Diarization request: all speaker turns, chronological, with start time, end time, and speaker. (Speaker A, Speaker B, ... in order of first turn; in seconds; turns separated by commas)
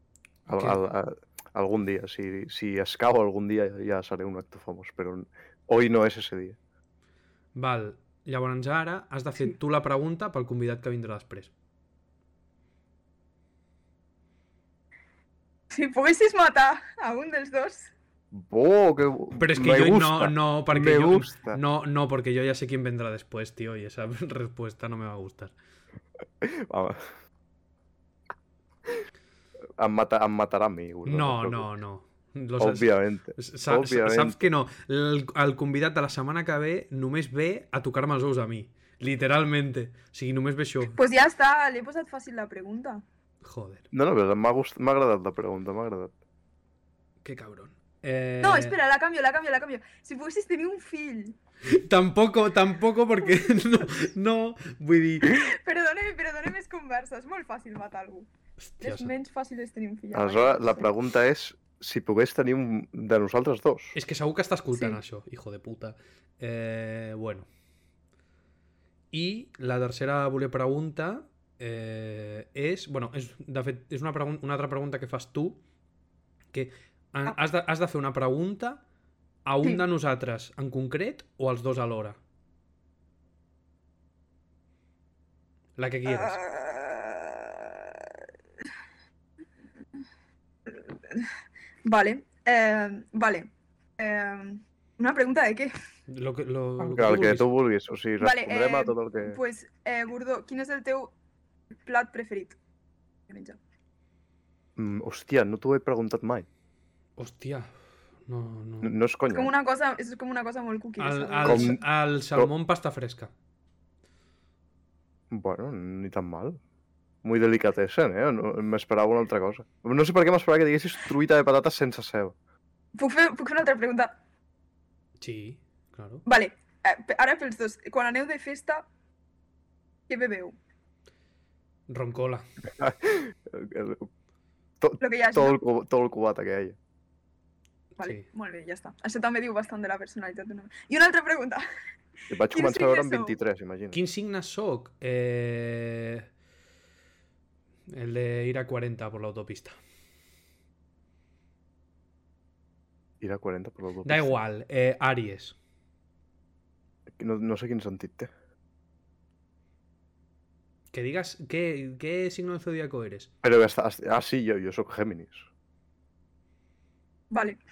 Speaker A: 0.5-0.8, Speaker B: 0.5-6.6, Speaker A: 7.5-11.5, Speaker C: 15.7-17.9, Speaker B: 18.3-21.6, Speaker A: 19.4-25.5, Speaker B: 26.4-27.0, Speaker B: 29.8-31.7, Speaker A: 31.1-41.0, Speaker B: 32.6-34.5, Speaker C: 40.9-43.0, Speaker A: 43.4-43.9, Speaker B: 43.9-46.1, Speaker A: 47.2-48.7, Speaker C: 48.4-51.4, Speaker A: 51.6-55.3, Speaker C: 55.2-58.3, Speaker A: 58.6-59.1, Speaker C: 58.8-60.9, Speaker B: 60.1-63.9, Speaker A: 63.9-67.5, Speaker A: 69.1-75.6, Speaker A: 76.5-78.8, Speaker A: 79.4-82.2, Speaker A: 85.8-86.4, Speaker C: 86.1-88.1, Speaker C: 90.7-91.3, Speaker C: 91.8-95.7, Speaker A: 96.1-97.5, Speaker B: 96.8-99.4, Speaker C: 98.2-101.1, Speaker C: 101.8-102.6, Speaker C: 103.3-103.6, Speaker B: 104.8-106.5, Speaker A: 107.2-107.7, Speaker A: 108.3-109.0, Speaker B: 108.8-109.5, Speaker C: 109.3-111.8, Speaker A: 111.0-113.3, Speaker B: 111.4-111.8, Speaker B: 115.3-116.6, Speaker B: 117.2-122.3, Speaker C: 123.0-124.1, Speaker A: 125.2-126.2, Speaker C: 126.2-128.8, Speaker C: 130.1-130.5, Speaker A: 131.9-132.4, Speaker B: 132.8-134.1, Speaker B: 134.8-136.8, Speaker C: 135.0-135.6, Speaker A: 138.0-138.2, Speaker C: 138.0-141.6, Speaker B: 142.3-144.0, Speaker C: 142.5-143.3, Speaker A: 143.9-146.3, Speaker A: 147.9-149.8, Speaker B: 153.2-154.3, Speaker A: 154.0-155.5, Speaker B: 157.1-158.3, Speaker A: 160.9-163.3, Speaker B: 163.4-165.5, Speaker C: 167.3-167.6